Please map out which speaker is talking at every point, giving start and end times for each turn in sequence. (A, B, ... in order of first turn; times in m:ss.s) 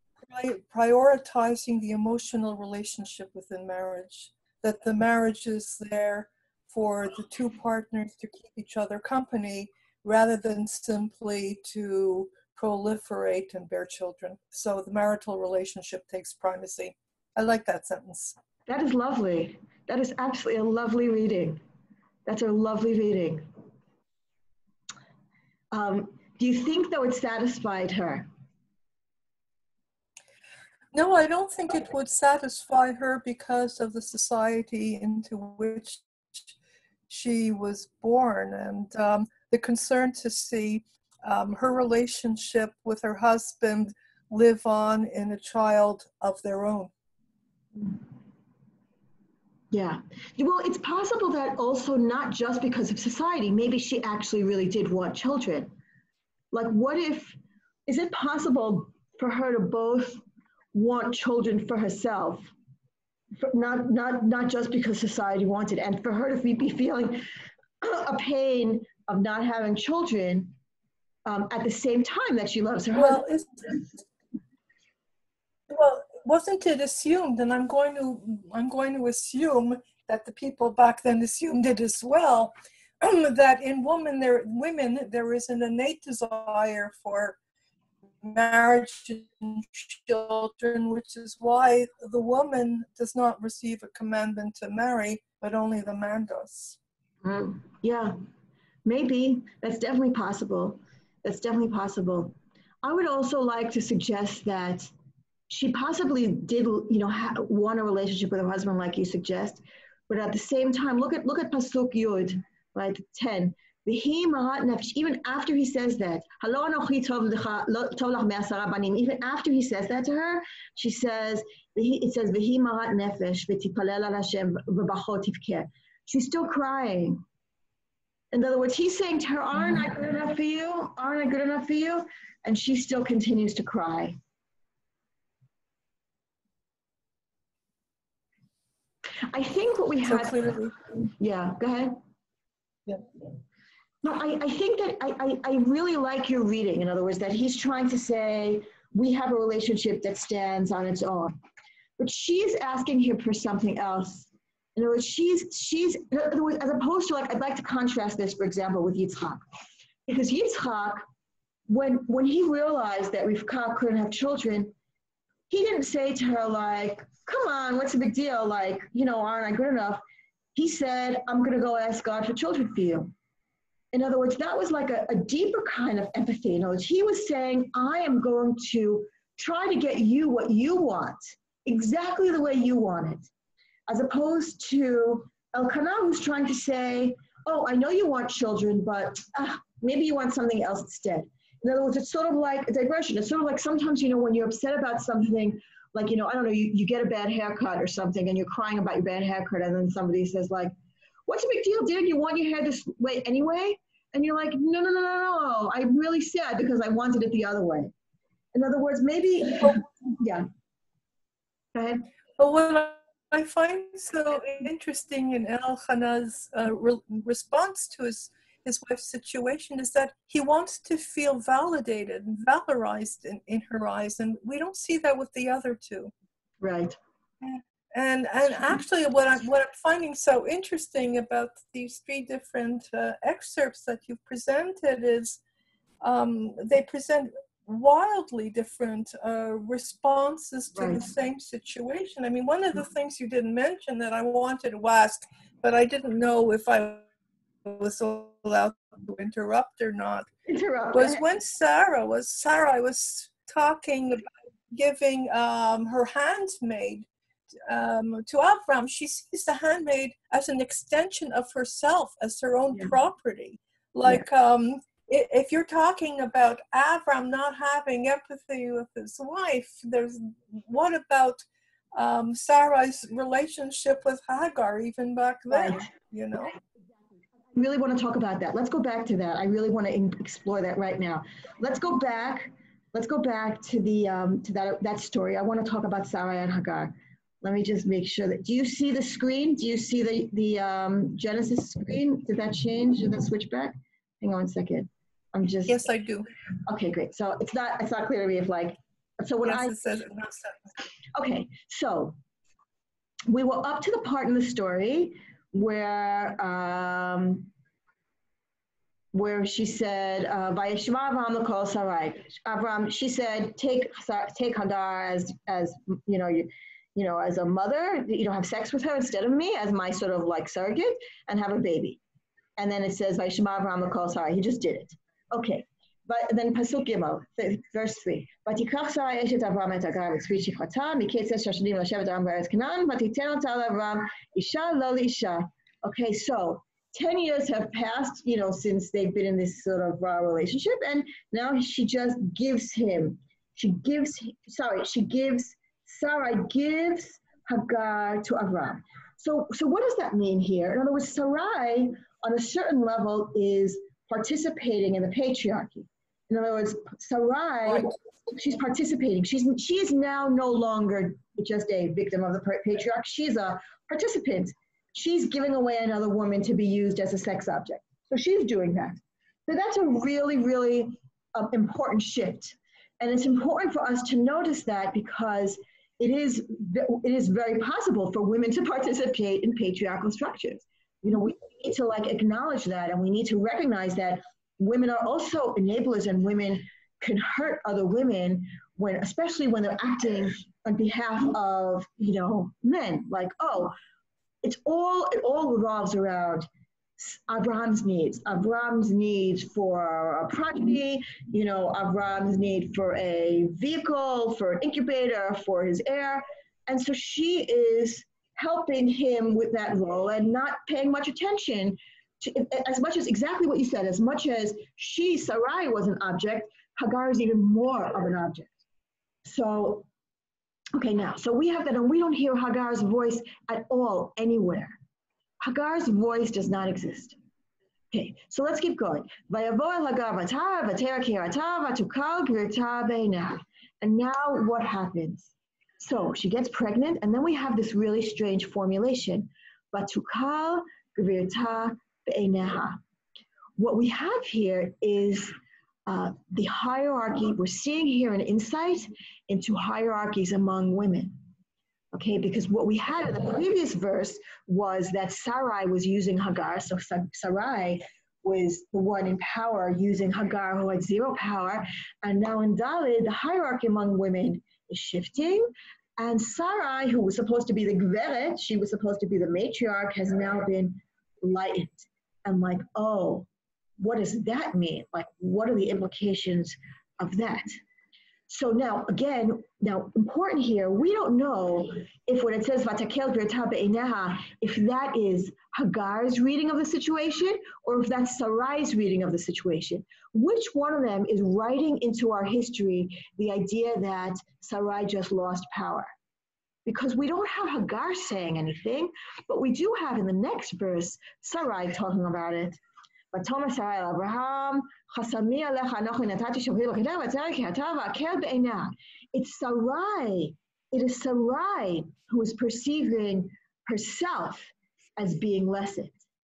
0:00.2-0:18.4 A
0:18.7-0:21.6 B
0:22.3-0:23.5 B
0:25.7-0:28.3 B
0:30.9-0:36.4 A
0:37.1-0:46.9 A
0:49.7-0:55.7 B
0:56.5-1:02.5 B
1:03.4-1:07.3 B
1:07.8-1:10.6 B
1:11.2-1:13.2 B
1:13.0-1:13.8 A
1:15.7-1:27.4 A
1:28.2-1:36.8 A
1:37.2-1:38.2 B
1:38.8-1:44.9 B
1:45.5-2:07.2 B
2:08.3-2:14.2 B
2:19.3-2:22.0 B
2:20.0-2:20.7 A
2:24.0-2:31.3 B
2:32.0-2:39.4 B
2:40.1-2:41.0 B
2:41.7-2:44.7 B
2:45.5-2:50.0 B
2:50.6-2:53.1 B
2:53.9-3:03.3 B
3:03.9-3:20.7 B
3:21.3-3:27.9 B
3:28.5-3:30.5 B
3:31.8-3:32.1 B
3:32.4-3:46.1 A
3:46.6-3:47.0 B
3:47.4-3:55.4 A
3:56.0-4:07.0 A
4:00.8-4:01.1 B
4:07.6-4:10.3 A
4:10.5-4:11.2 B
4:10.9-4:17.1 A
4:17.6-4:31.4 A
4:32.0-4:36.5 A
4:35.5-4:35.9 B
4:37.5-4:46.9 B
4:47.4-4:55.9 B
4:55.7-4:56.3 A
4:56.7-4:59.8 B
4:59.4-5:00.7 A
5:01.2-5:02.2 B
5:03.3-5:07.5 B
5:09.1-5:22.0 B
5:22.6-6:33.7 B
6:34.4-6:58.5 B
6:59.2-6:59.9 B
7:00.7-7:04.8 B
7:05.4-7:07.2 B
7:07.9-7:22.8 B
7:23.6-7:25.3 B
7:25.9-7:31.2 B
7:31.9-7:53.3 B
7:53.8-7:57.6 B
7:58.3-8:15.9 B
8:16.7-8:22.6 B
8:23.1-8:36.0 B